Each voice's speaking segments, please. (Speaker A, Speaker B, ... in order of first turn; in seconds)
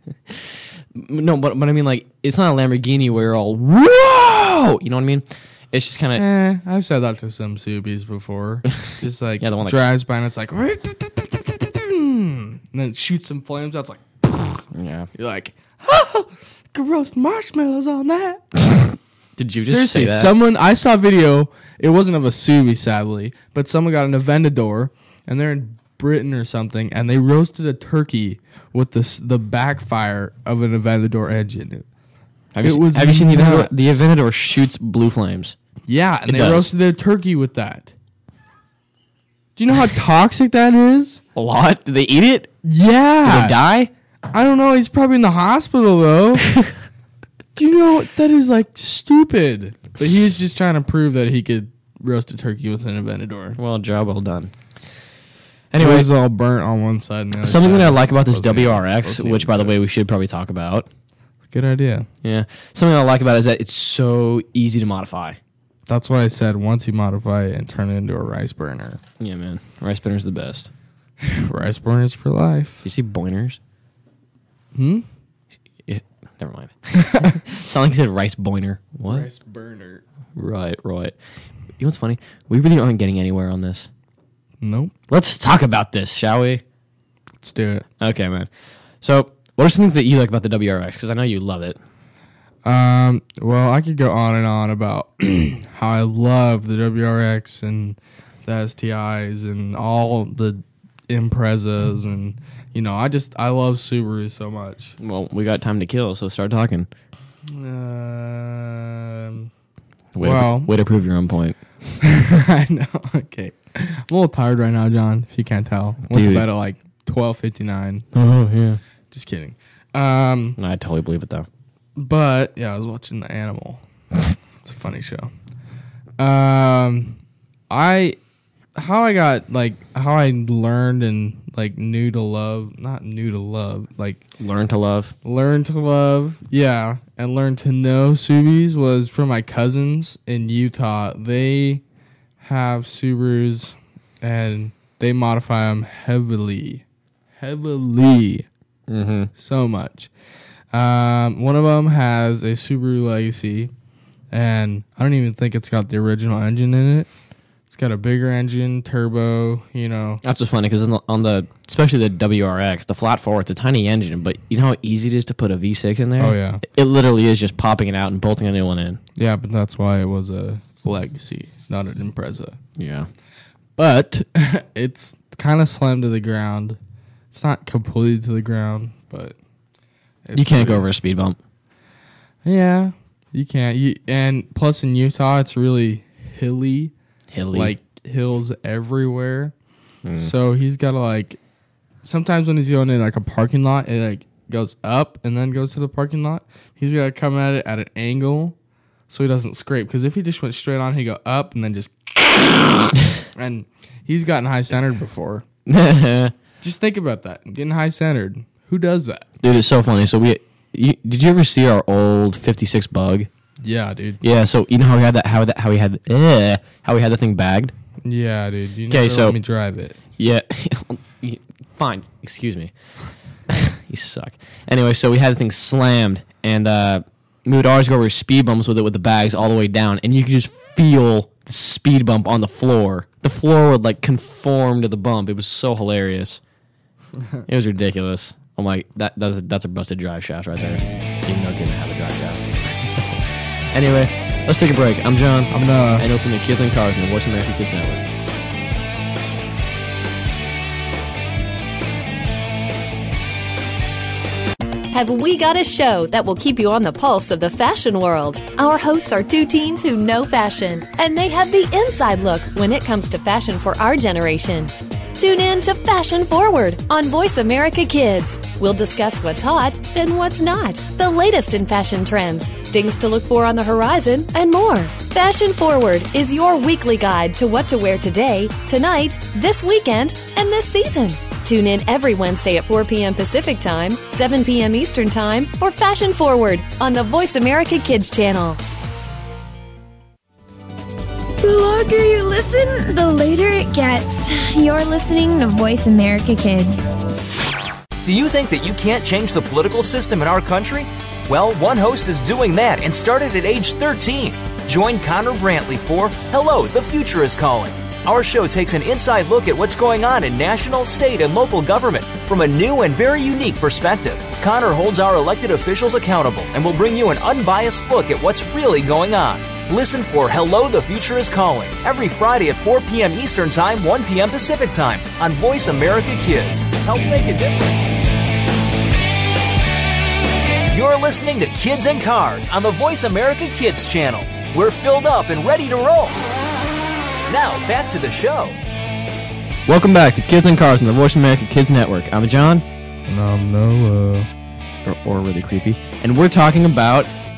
Speaker A: 0.9-6.2, 9.4-9.8, 14.7-15.1, 19.4-20.4, 32.5-35.6, 36.3-36.7, 41.4-42.5, 43.2-43.9, 53.6-54.5, 55.7-56.1, 57.4-60.9, 62.2-65.4, 69.2-70.7, 72.8-73.6, 75.9-79.3, 80.4-81.2, 81.8-83.9, 85.1-86.6, 88.0-88.5, 89.0-91.8, 105.0-106.9, 110.2-111.6, 116.1-116.5, 118.1-118.8, 120.6-121.5, 134.4-135.2, 148.9-149.3, 160.2-169.0, 172.8-173.1, 180.3-181.4, 187.3-187.7, 190.1-190.3, 205.7-206.3, 209.4-213.3, 214.2-217.7, 218.9-219.4, 220.2-222.7, 223.5-236.4, 237.5-243.1, 243.7-248.1, 339.7-342.7, 344.8-347.1
Speaker B: 6.2-18.9, 19.6-31.9, 32.6-34.0, 35.9-37.9, 39.6-41.2, 42.6-43.6, 44.3-46.5, 47.6-53.6, 55.8-59.8, 61.5-62.1, 65.9-69.0, 71.2-72.8, 74.7-75.1, 77.1-77.4, 79.0-80.0, 84.6-84.9, 87.4-87.9, 92.7-105.0, 107.5-109.5, 110.2-110.7, 112.0-118.1, 119.1-120.6, 122.0-123.8, 124.6-125.3, 126.2-127.2, 127.7-128.2, 128.8-134.2, 135.2-141.8, 142.4-146.8, 147.4-148.5, 149.4-150.1, 150.7-153.7, 154.3-157.1, 157.7-160.2, 166.2-166.6, 169.2-172.6, 173.8-176.8, 177.3-179.4, 180.3-180.9, 182.4-186.9, 187.5-189.5, 190.2-191.4, 192.0-198.6, 199.1-205.4, 206.6-209.2, 213.6-214.2, 218.1-220.0, 245.5-246.1, 343.1-344.3
Speaker C: 254.9-288.6
Speaker D: 291.4-297.0
Speaker E: 298.0-327.9, 330.7-336.2, 337.3-338.6